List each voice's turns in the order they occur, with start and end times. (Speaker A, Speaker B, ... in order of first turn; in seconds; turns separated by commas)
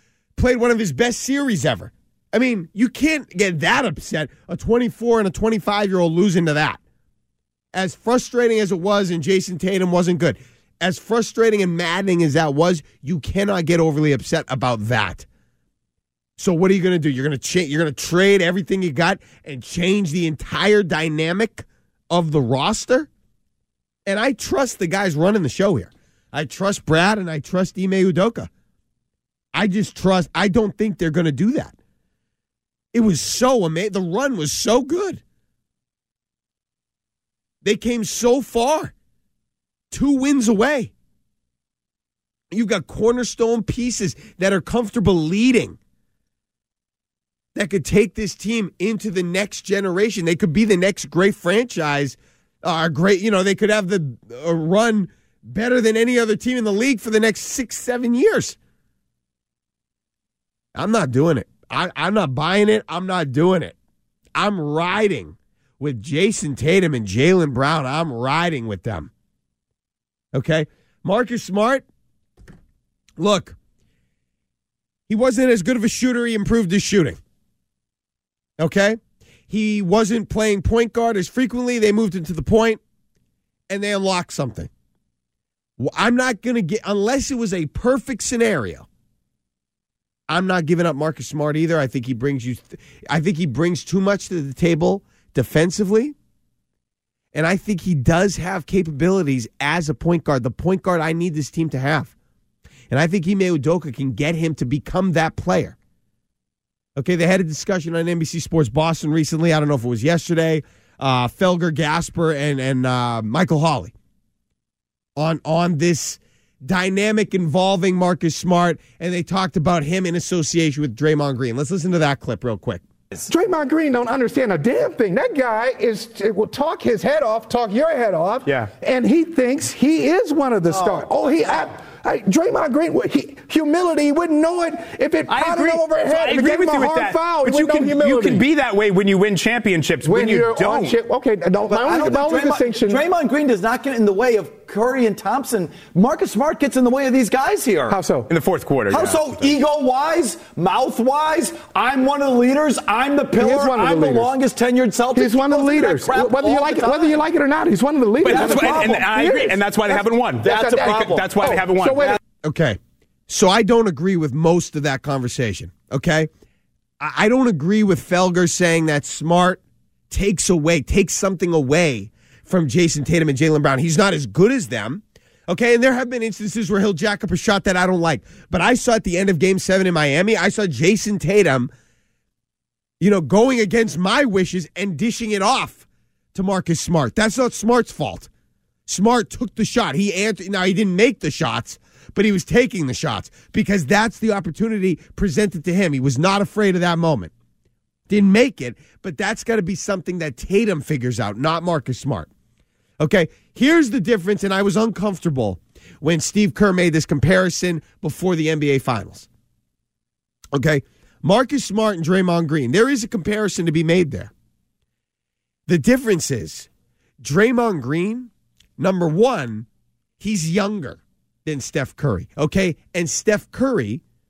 Speaker A: 0.3-6.8, Speaker A: 7.7-15.2, Speaker A: 16.4-23.1, Speaker A: 24.1-28.5, Speaker A: 29.5-31.7, Speaker A: 32.9-35.2, Speaker A: 37.6-38.9, Speaker A: 39.9-40.9, Speaker A: 42.5-45.8, Speaker A: 47.5-58.6, Speaker A: 60.7-63.8, Speaker A: 64.3-69.1, Speaker A: 70.3-71.8, Speaker A: 73.2-73.5, Speaker A: 75.1-77.2, Speaker A: 78.6-82.8, Speaker A: 83.7-84.7, Speaker A: 85.8-88.9, Speaker A: 90.3-96.1, Speaker A: 97.3-102.1, Speaker A: 102.9-105.8, Speaker A: 107.0-113.9, Speaker A: 115.2-122.8, Speaker B: 123.3-138.5, Speaker C: 128.4-128.7, Speaker D: 130.7-131.6, Speaker C: 135.3-141.0, Speaker B: 140.0-143.0, Speaker D: 141.7-148.1, Speaker B: 147.9-148.3, Speaker C: 148.3-149.4, Speaker D: 148.9-157.2, Speaker B: 153.4-154.3, Speaker B: 155.1-162.2, Speaker C: 158.2-162.2, Speaker D: 158.3-159.1, Speaker D: 160.4-161.3, Speaker A: 162.4-166.3, Speaker A: 167.0-181.7, Speaker A: 183.0-188.3, Speaker A: 188.9-197.3, Speaker A: 198.1-202.3, Speaker A: 203.0-209.3, Speaker A: 210.5-214.3, Speaker A: 215.7-216.7, Speaker A: 217.2-219.7, Speaker A: 220.2-224.0